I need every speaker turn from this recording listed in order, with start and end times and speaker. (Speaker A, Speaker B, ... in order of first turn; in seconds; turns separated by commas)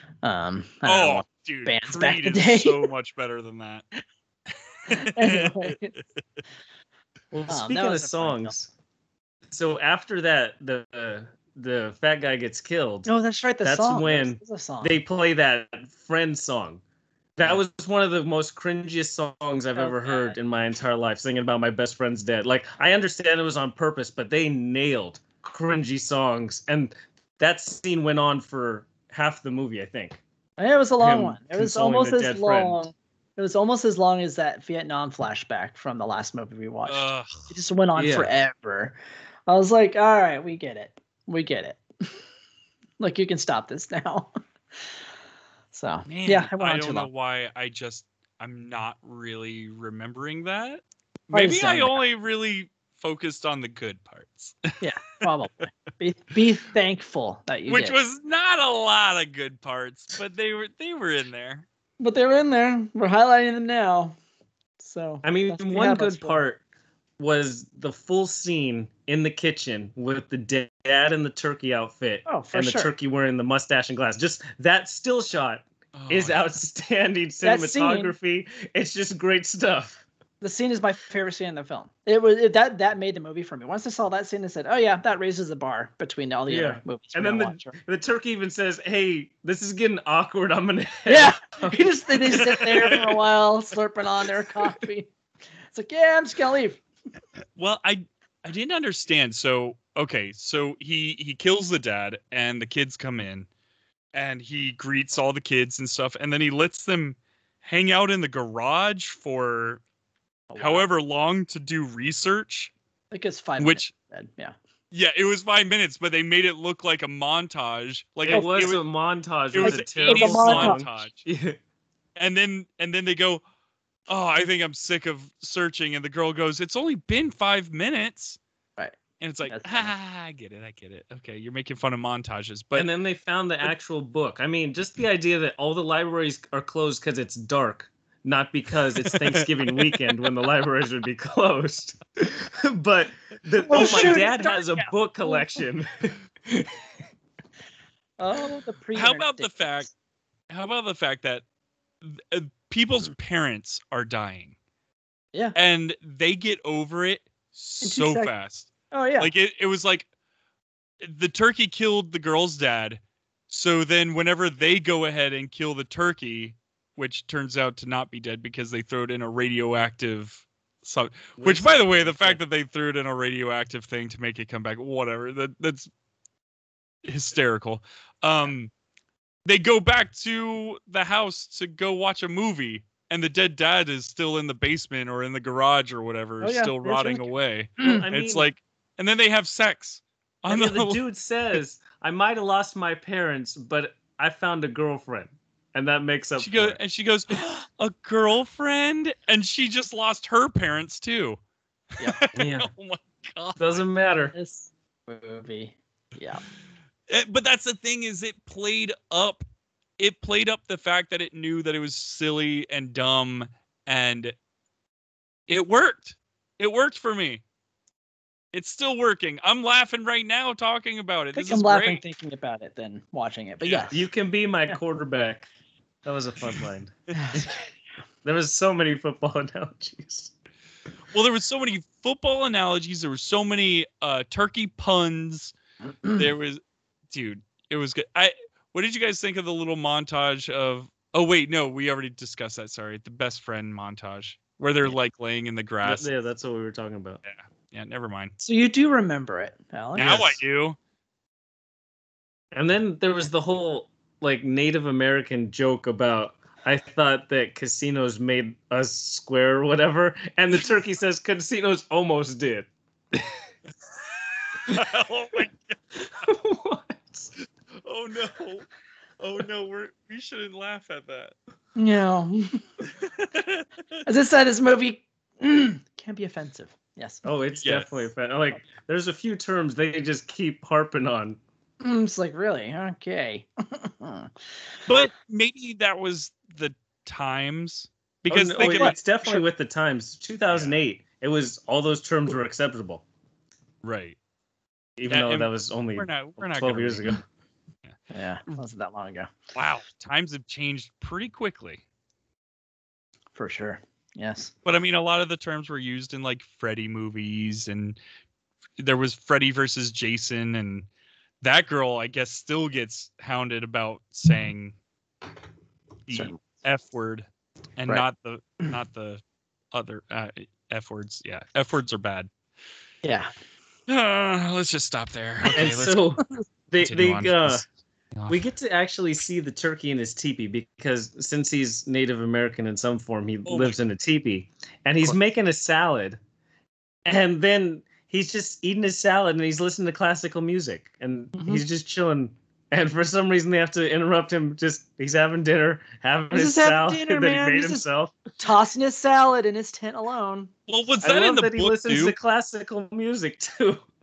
Speaker A: 0.2-2.9, Speaker B: 0.8-3.9, Speaker B: 4.8-5.8, Speaker A: 4.9-5.9, Speaker C: 7.3-8.7, Speaker A: 7.5-8.5, Speaker C: 9.5-13.1, Speaker A: 13.1-15.0, Speaker C: 13.6-16.8, Speaker C: 17.4-30.2, Speaker A: 19.8-20.4, Speaker A: 30.6-41.8, Speaker C: 31.0-32.8, Speaker B: 36.9-37.5, Speaker C: 37.9-38.3, Speaker A: 43.0-44.3, Speaker A: 45.7-47.1, Speaker B: 46.0-54.8, Speaker A: 51.3-52.0, Speaker A: 54.8-58.0, Speaker B: 57.7-61.6, Speaker A: 62.0-64.2, Speaker A: 64.8-66.4, Speaker C: 65.2-66.6, Speaker C: 67.2-80.0, Speaker A: 72.2-72.9, Speaker B: 75.9-76.4, Speaker A: 77.4-78.1, Speaker A: 80.4-87.7, Speaker C: 86.5-91.9, Speaker A: 91.1-95.1, Speaker B: 92.2-93.1, Speaker A: 95.7-96.8, Speaker B: 97.6-103.5, Speaker B: 104.1-109.8, Speaker A: 110.5-110.9, Speaker B: 110.6-112.7, Speaker A: 113.1-114.5, Speaker B: 113.6-113.9, Speaker B: 114.9-118.8, Speaker C: 118.3-121.6, Speaker B: 119.5-121.2, Speaker A: 119.6-120.8, Speaker B: 122.2-123.4, Speaker B: 124.1-128.4, Speaker A: 128.8-129.9, Speaker B: 129.2-132.9, Speaker C: 132.7-146.8, Speaker B: 139.1-140.0, Speaker A: 143.7-145.6, Speaker B: 143.7-144.2, Speaker A: 148.2-149.9, Speaker B: 148.9-149.9, Speaker B: 150.5-151.4, Speaker B: 152.0-154.5, Speaker B: 155.5-160.1, Speaker A: 157.8-158.3, Speaker A: 158.9-159.3, Speaker B: 161.0-175.9, Speaker C: 171.4-172.4, Speaker B: 177.0-178.7, Speaker B: 179.4-191.0, Speaker A: 186.4-187.3, Speaker C: 187.8-188.5, Speaker C: 190.5-196.8, Speaker B: 196.4-201.4, Speaker B: 201.9-203.8, Speaker C: 202.3-202.7, Speaker C: 203.6-204.3, Speaker A: 204.3-206.4, Speaker B: 207.1-209.4, Speaker B: 210.0-214.3, Speaker B: 215.5-217.4, Speaker B: 218.5-222.0, Speaker A: 221.3-224.0, Speaker B: 223.6-223.9, Speaker C: 223.9-225.5, Speaker C: 226.0-227.6, Speaker A: 227.2-227.5, Speaker C: 228.2-230.3, Speaker B: 231.1-235.5, Speaker A: 235.9-236.3, Speaker B: 236.1-236.6, Speaker B: 237.1-246.1, Speaker C: 245.8-247.2, Speaker B: 247.2-248.3, Speaker A: 248.4-250.4, Speaker B: 249.9-250.8, Speaker C: 252.5-263.3, Speaker B: 264.6-266.3, Speaker C: 266.2-267.3, Speaker B: 267.8-268.7, Speaker B: 269.2-271.3, Speaker A: 271.8-272.6, Speaker B: 273.0-273.6, Speaker A: 274.1-277.2, Speaker C: 277.2-281.4, Speaker B: 277.6-278.1, Speaker A: 281.8-284.3, Speaker B: 284.9-289.0, Speaker C: 288.3-293.0, Speaker A: 288.6-289.4, Speaker B: 293.8-294.1, Speaker C: 295.0-297.2, Speaker B: 295.1-297.2, Speaker A: 298.1-299.3, Speaker B: 299.5-301.8, Speaker A: 303.3-304.5, Speaker B: 304.6-308.0, Speaker B: 308.8-310.9, Speaker B: 311.4-314.7, Speaker B: 316.1-317.2, Speaker A: 316.1-316.4, Speaker B: 317.8-322.3, Speaker A: 323.0-323.3, Speaker B: 323.9-326.2, Speaker C: 325.5-327.6, Speaker B: 326.8-327.6, Speaker B: 328.1-328.4, Speaker C: 328.3-336.2, Speaker B: 333.4-333.8, Speaker C: 337.0-348.1, Speaker A: 341.4-341.6, Speaker A: 346.3-347.9, Speaker A: 348.4-350.5, Speaker B: 350.7-352.1, Speaker C: 351.0-353.8